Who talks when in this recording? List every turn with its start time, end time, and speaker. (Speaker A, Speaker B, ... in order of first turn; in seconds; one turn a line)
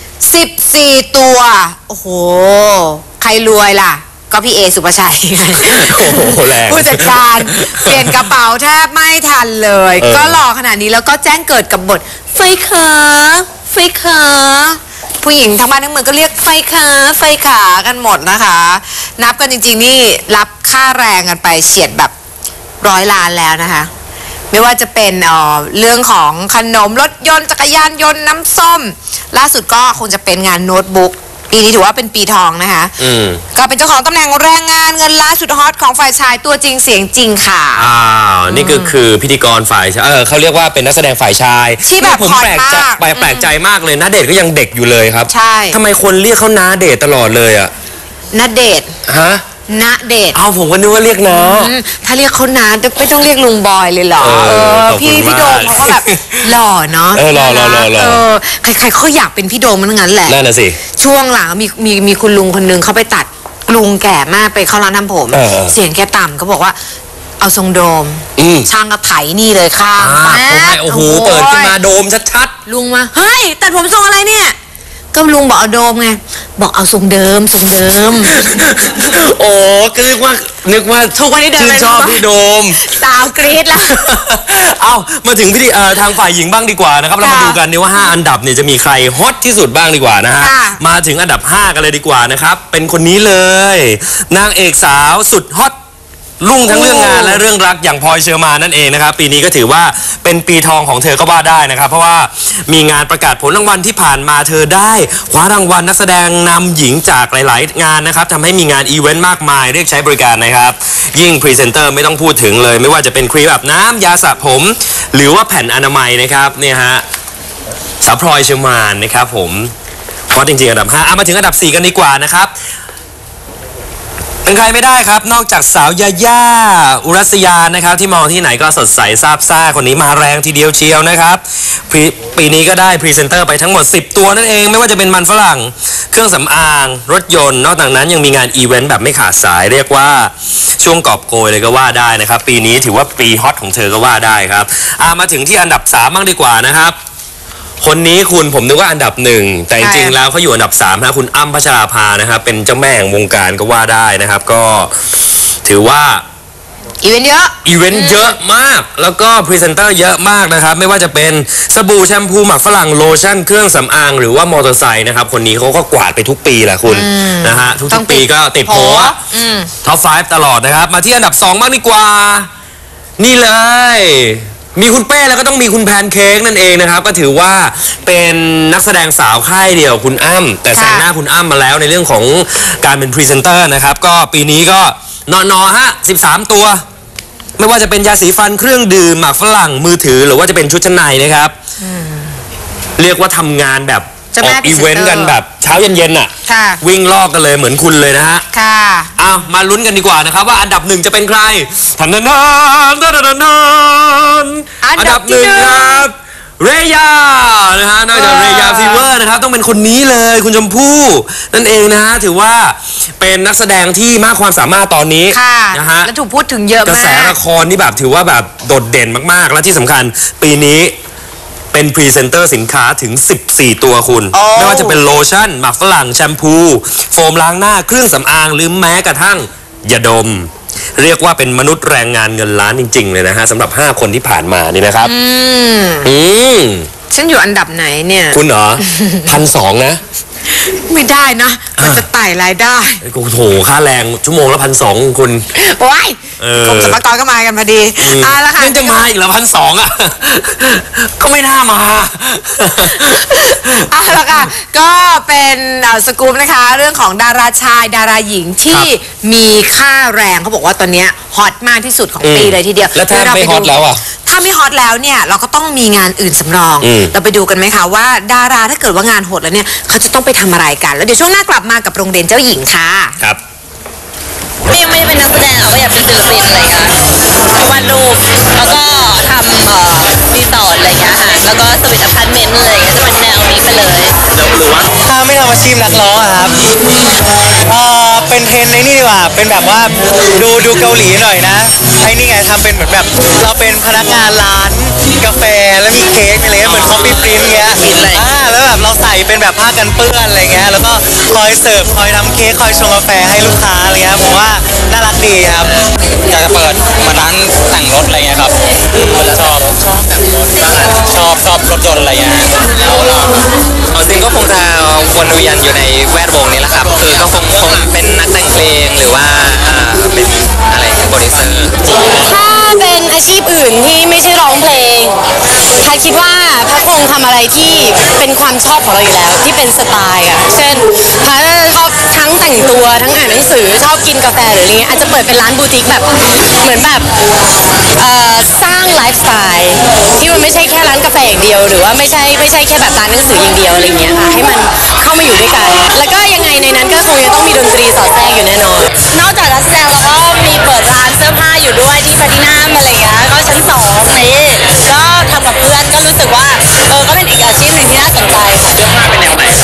Speaker A: 0.2-22.1
Speaker B: 5.5-8.3
Speaker B: 10.0-10.4
Speaker A: 22.8-23.9
Speaker A: 24.5-33.0
Speaker B: 33.0-33.4
Speaker A: 33.5-37.9
Speaker B: 37.8-47.7
Speaker A: 38.5-38.9
Speaker A: 41.8-43.5
Speaker A: 45.3-45.8
Speaker A: 48.3-48.9
Speaker B: 49.0-49.4
Speaker A: 49.7-50.4
Speaker B: 50.3-51.7
Speaker A: 51.3-60.4
Speaker B: 54.2-56.5
Speaker B: 57.1-58.2
Speaker B: 60.3-60.8
Speaker A: 61.0-66.8
Speaker B: 65.3-65.7
Speaker A: 67.4-71.7
Speaker B: 68.4-68.7
Speaker B: 70.0-72.5
Speaker A: 72.7-74.5
Speaker A: 75.1-78.4
Speaker B: 78.3-82.8
Speaker A: 81.2-84.0
Speaker B: 83.8-95.7
Speaker A: 87.2-87.6
Speaker A: 90.4-90.8
Speaker B: 96.4-117.0
Speaker A: 96.7-97.4
Speaker B: 118.0-119.7
Speaker B: 120.3-122.5
Speaker B: 124.4-146.9
Speaker B: 147.8-154.9
Speaker A: 149.8-150.2
Speaker B: 155.6-156.2
Speaker A: 157.0-158.3
Speaker B: 157.6-169.2
Speaker A: 166.9-169.7
Speaker B: 169.8-172.5
Speaker B: 173.2-186.8
Speaker A: 180.7-181.0
Speaker B: 187.6-191.5
Speaker A: 191.8-192.3
Speaker B: 193.0-198.4
Speaker A: 194.3-195.3
Speaker A: 196.4-196.8
Speaker A: 198.5-199.1
Speaker B: 199.2-216.1
Speaker A: 204.8-206.1
Speaker A: 208.1-209.1
Speaker A: 215.3-217.3
Speaker B: 216.8-220.9
Speaker B: 221.7-235.1
Speaker A: 224.3-225.0
Speaker A: 235.0-236.1
Speaker B: 236.0-236.9
Speaker A: 237.1-239.3
Speaker B: 238.3-240.0
Speaker A: 240.5-243.0
Speaker B: 243.0-245.4
Speaker A: 245.5-249.0
Speaker B: 246.4-247.0
Speaker B: 248.0-254.3
Speaker A: 253.5-273.2
Speaker B: 262.2-264.0
Speaker B: 266.8-267.1
Speaker C: 274.7-276.9
Speaker C: 277.5-284.1
Speaker D: 285.0-286.6
Speaker D: 287.7-305.7
Speaker E: 296.6-298.2
Speaker E: 306.3-313.2
Speaker E: 313.9-321.9
Speaker C: 322.2-325.1
Speaker C: 325.8-336.1
Speaker C: 336.6-337.1
Speaker C: 338.0-359.5